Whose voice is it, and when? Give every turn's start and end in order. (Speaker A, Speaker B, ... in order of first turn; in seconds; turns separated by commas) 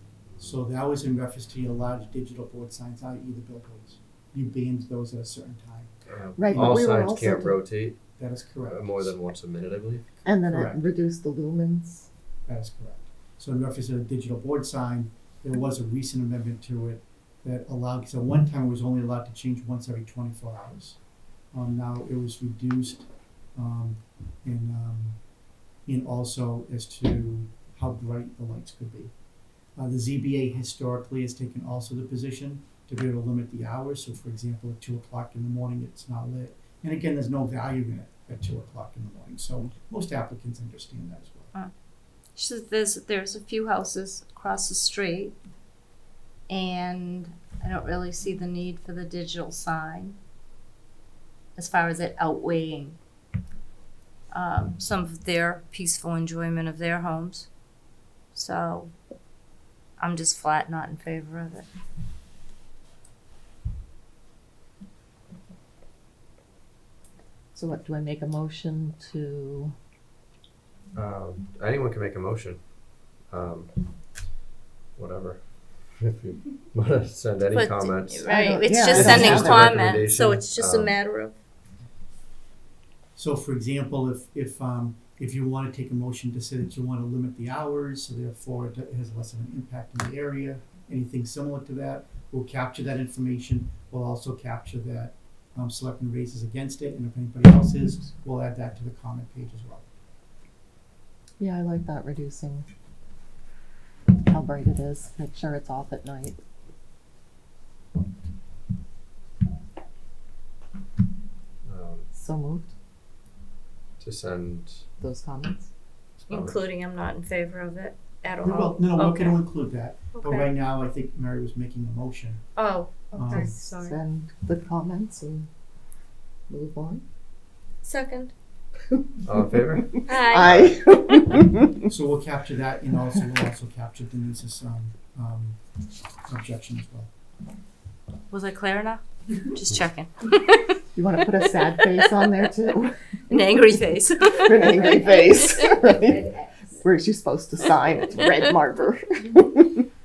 Speaker A: 0.4-5.9, Speaker B: 6.0-8.0, Speaker C: 6.4-7.6, Speaker A: 8.2-9.2, Speaker B: 8.6-10.1, Speaker C: 10.2-12.1, Speaker A: 10.4-10.8, Speaker A: 12.4-21.0, Speaker A: 21.5-25.2, Speaker A: 25.8-29.1, Speaker A: 29.8-41.5, Speaker D: 42.4-45.3, Speaker D: 46.5-50.2, Speaker D: 51.5-53.0, Speaker D: 54.3-57.5, Speaker D: 58.3-58.9, Speaker D: 60.0-61.7, Speaker C: 67.5-69.7, Speaker B: 70.9-72.7, Speaker B: 73.2-73.7, Speaker B: 75.0-81.0, Speaker D: 77.5-81.3, Speaker C: 78.2-79.7, Speaker A: 83.2-99.8, Speaker C: 101.4-102.7, Speaker C: 104.2-106.4, Speaker B: 111.6-112.1, Speaker C: 112.1-112.7, Speaker B: 114.0-114.8, Speaker C: 115.0-115.7, Speaker B: 116.2-116.6, Speaker D: 116.3-119.4, Speaker A: 118.4-122.5, Speaker D: 120.1-120.5, Speaker D: 122.5-124.0, Speaker A: 123.1-123.5, Speaker C: 123.2-125.5, Speaker C: 126.5-127.0, Speaker D: 127.8-128.3, Speaker B: 129.2-130.8, Speaker C: 129.8-131.8, Speaker D: 130.1-130.6, Speaker A: 131.9-135.6, Speaker A: 136.2-137.1, Speaker D: 138.3-140.8, Speaker C: 140.9-143.0, Speaker D: 143.3-146.7, Speaker C: 144.4-149.8